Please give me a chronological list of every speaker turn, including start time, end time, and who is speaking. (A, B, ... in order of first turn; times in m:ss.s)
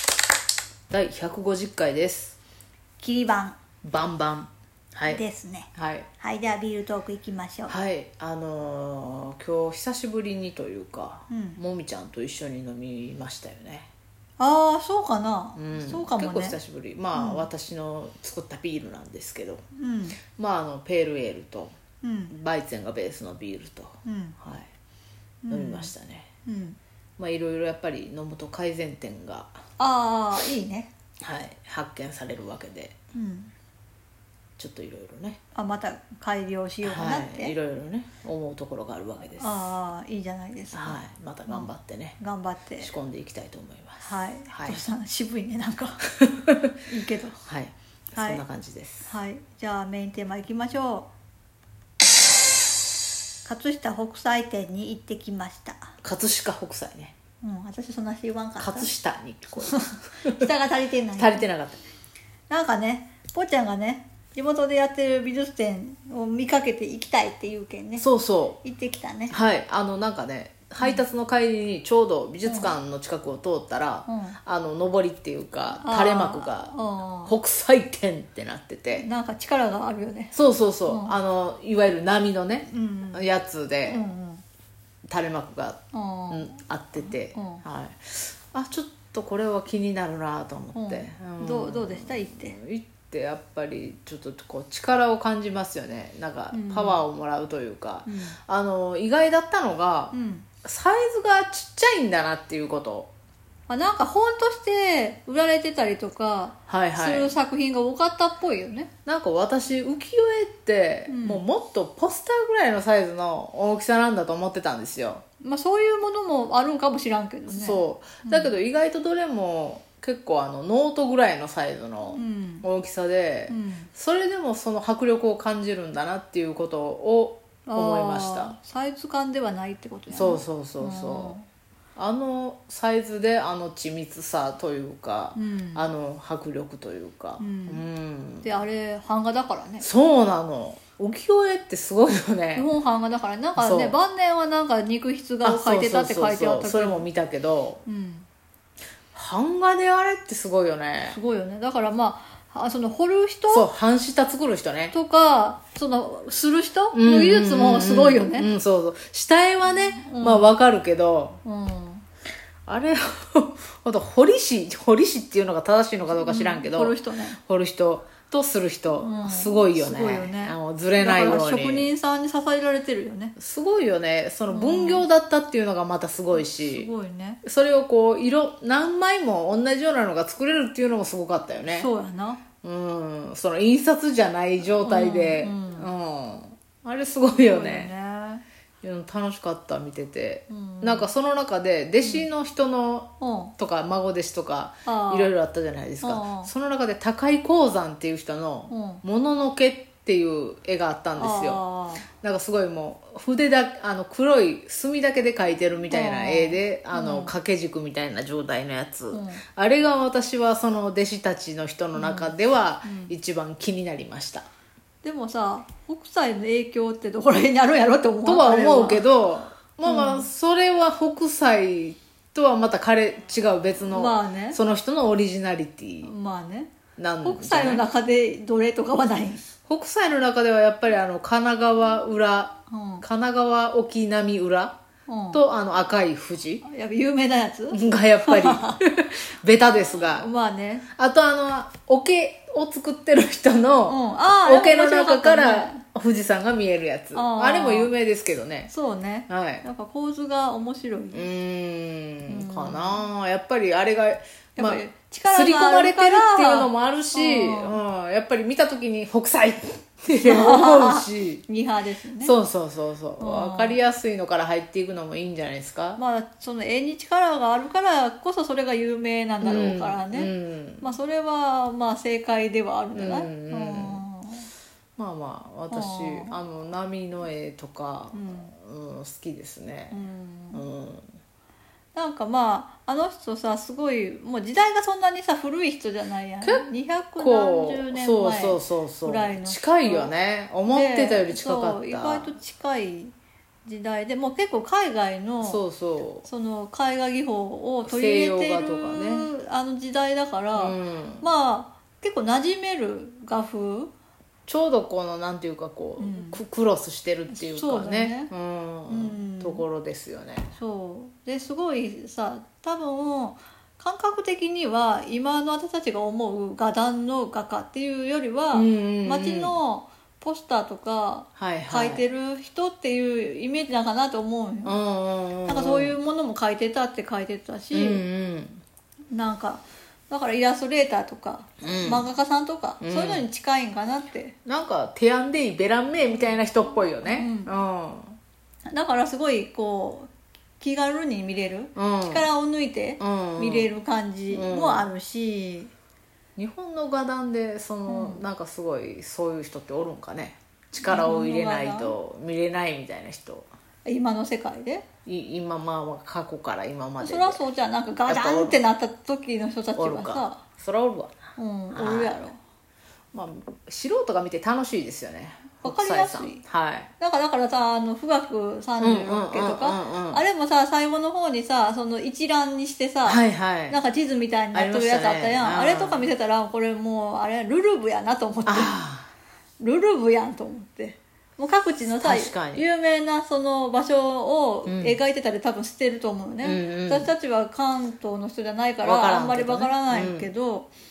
0:00.9-0:02.4 A
0:03.0-0:03.6 B
0:03.8-0:05.2 A
0:05.1-0:07.8 B
0:05.7-0:06.1 A
0:07.7-0:13.9 A
0:11.3-0:11.6 B
0:14.4-0:16.6 B
0:15.6-0:19.6 A
0:17.2-0:17.5 B
0:19.7-0:20.2 B
0:20.2-0:21.8 A
0:22.0-0:22.3 B
0:22.3-0:24.7 A
0:24.0-0:24.4 B
0:25.4-0:26.8 B
0:25.5-0:26.3 A
0:27.2-0:29.6 A
0:29.8-0:30.9 B
0:31.2-0:33.0 A
0:33.1-0:33.5 B
0:34.6-0:35.4 A
0:35.5-0:37.6 B
0:36.8-0:39.7 A
0:39.4-0:43.0 B
0:40.7-0:42.2 A
0:42.8-0:44.9 A
0:44.0-0:46.0 B
0:46.1-0:46.6 A
0:46.9-0:47.4 B
0:47.4-0:49.1 A
0:48.2-0:48.4 B
0:49.1-0:51.1 B
0:53.4-0:55.9 B
0:56.0-0:57.2 A
0:57.4-0:59.0 B
0:58.6-1:00.5 A
0:59.6-1:01.5 B
1:01.2-1:01.8 A
1:02.5-1:08.1 B
1:08.0-1:08.6 A
1:08.6-1:09.4 B
1:09.3-1:19.1 A
1:12.4-1:12.8 B
1:14.1-1:14.4 B
1:15.8-1:17.4 B
1:19.0-1:20.3 B
1:20.3-1:24.0 A
1:20.9-1:21.2 B
1:22.7-1:23.3 B
1:23.9-1:24.4 B
1:25.1-1:43.1 A
1:25.9-1:27.6 B
1:30.7-1:32.6 B
1:36.5-1:37.0 B
1:38.1-1:38.4 B
1:40.1-1:40.6 B
1:43.7-1:48.9 B
1:46.7-1:47.4 A
1:49.0-1:55.3 A
1:51.1-1:51.4 B
1:55.4-1:58.5 B
1:57.5-2:08.6 A
2:02.2-2:02.7 B
2:03.5-2:03.9 B
2:07.7-2:11.4 B
2:10.1-2:11.4 A
2:12.0-2:18.5 A
2:15.4-2:15.9 B
2:17.4-2:17.8 B
2:18.4-2:19.9 B
2:19.8-2:22.7 A
2:22.6-2:27.1 B
2:23.6-2:24.0 A
2:25.4-2:27.8 A
2:27.9-2:28.3 B
2:29.1-2:31.2 A
2:31.0-2:33.7 B
2:33.5-2:35.0 A
2:34.9-2:38.5 B
2:36.9-2:41.4 A
2:39.7-2:40.5 B
2:41.4-2:42.0 B
2:42.7-2:51.9 A
2:46.2-2:47.4 B
2:49.0-2:53.4 B
2:53.4-2:56.9 A
2:54.5-2:55.0 B
2:56.3-2:57.4 B
2:57.4-3:01.9 A
3:01.6-3:02.5 B
3:02.5-3:07.9 A
3:04.8-3:05.9 B
3:07.3-3:08.4 B
3:08.8-3:34.5 A
3:10.5-3:11.1 B
3:12.0-3:12.3 B
3:13.2-3:13.6 B
3:14.9-3:15.3 B
3:16.0-3:16.5 B
3:18.7-3:19.0 B
3:21.2-3:22.1 B
3:25.9-3:27.4 B
3:29.1-3:29.4 B
3:32.0-3:32.3 B
3:32.8-3:33.2 B
3:35.0-3:39.1 B
3:38.2-3:46.1 A
3:39.9-3:40.3 B
3:43.9-3:44.6 B
3:46.0-3:49.5 B
3:46.9-3:47.9 A
3:49.5-3:54.8 A
3:52.7-3:53.0 B
3:55.1-3:55.4 B
3:55.3-3:56.6 A
3:56.6-3:58.8 B
3:57.7-4:00.3 A
4:00.1-4:00.9 B
4:00.9-4:08.7 A
4:03.9-4:05.8 B
4:07.1-4:07.9 B
4:08.7-4:11.3 B
4:09.3-4:09.6 A
4:11.1-4:21.5 A
4:12.3-4:13.1 B
4:14.6-4:17.8 B
4:20.2-4:22.4 B
4:22.2-4:26.0 A
4:23.2-4:23.8 B
4:26.0-4:30.3 B
4:29.4-4:30.9 A
4:30.8-4:34.5 B
4:32.9-4:34.0 A
4:35.0-4:41.2 A
4:35.7-4:36.4 B
4:38.1-4:38.6 B
4:39.9-4:40.6 B
4:41.9-4:50.1 B
4:46.4-4:52.4 A
4:50.7-4:53.1 B
4:53.6-4:55.6 B
4:55.4-4:56.3 A
4:56.3-5:03.9 B
4:57.8-4:59.3 A
5:00.6-5:01.3 A
5:04.5-5:10.6 A
5:06.0-5:06.4 B
5:07.3-5:08.3 B
5:08.9-5:09.6 B
5:10.5-5:24.8 B
5:18.5-5:19.6 A
5:21.4-5:22.0 A
5:24.6-5:26.0 A
5:25.5-5:28.0 B
5:27.7-5:28.6 A
5:29.1-5:34.4 B
5:31.6-5:32.1 A
5:32.8-5:33.3 A
5:34.4-5:38.2 A
5:37.0-5:37.5 B
5:38.7-5:45.7 B
5:41.8-5:42.3 A
5:43.0-5:43.8 A
5:44.3-5:44.9 A
5:46.4-5:53.5 A
5:47.9-5:48.3 B
5:50.8-5:52.0 B
5:53.8-5:54.9 B
5:55.0-5:57.5 A
5:57.0-6:00.5 B
5:58.1-5:58.6 A
5:59.8-6:02.2 A
6:01.4-6:02.4 B
6:03.1-6:06.9 A
6:05.6-6:06.4 B
6:07.0-6:18.8 B
6:08.8-6:10.2 A
6:13.0-6:13.8 A
6:14.5-6:16.1 A
6:18.4-6:19.1 A
6:19.6-6:30.7 B
6:21.9-6:22.7 A
6:24.7-6:25.0 A
6:26.4-6:27.1 A
6:28.8-6:30.3 A